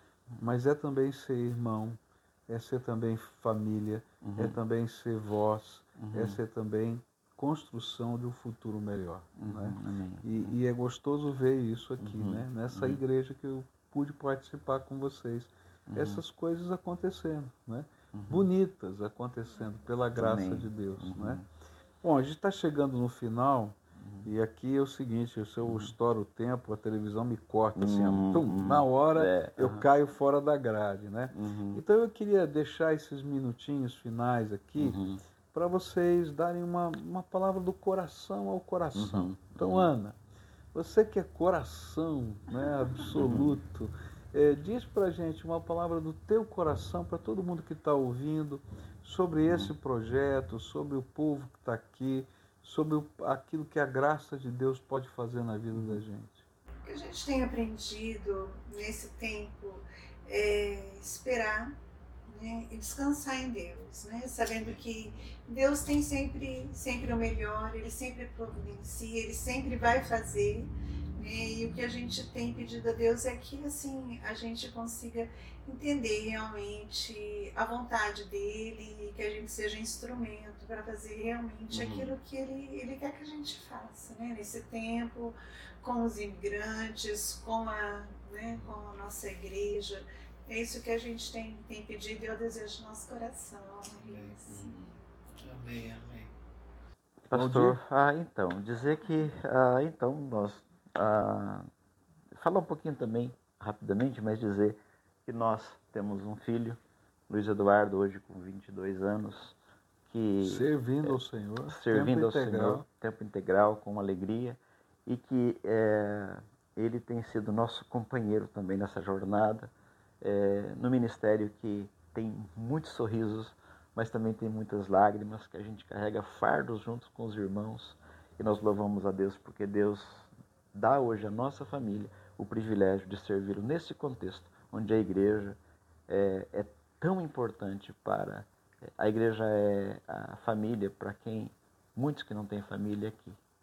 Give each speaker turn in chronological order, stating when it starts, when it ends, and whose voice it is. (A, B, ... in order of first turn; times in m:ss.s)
0:00.4-0:21.4 A
0:04.2-0:04.6 B
0:06.0-0:06.4 B
0:09.4-0:10.6 B
0:12.0-0:13.0 B
0:15.9-0:16.2 B
0:18.1-0:18.5 B
0:20.2-0:21.4 B
0:22.0-0:35.0 A
0:24.0-0:24.3 B
0:25.6-0:25.9 B
0:27.7-0:29.8 B
0:31.3-0:31.8 B
0:34.8-0:35.2 B
0:35.5-0:40.2 A
0:38.9-0:39.9 B
0:40.7-0:56.4 A
0:43.1-0:43.6 B
0:49.4-0:49.7 B
0:55.7-0:56.0 B
0:56.8-1:01.8 C
1:02.3-1:34.7 C
1:21.7-1:22.1 B
1:33.9-1:36.3 D
1:37.3-1:41.7 B
1:37.3-1:37.8 A
1:42.3-1:49.6 B
1:50.1-1:51.2 B
1:50.4-1:52.8 A
1:51.7-2:23.4 B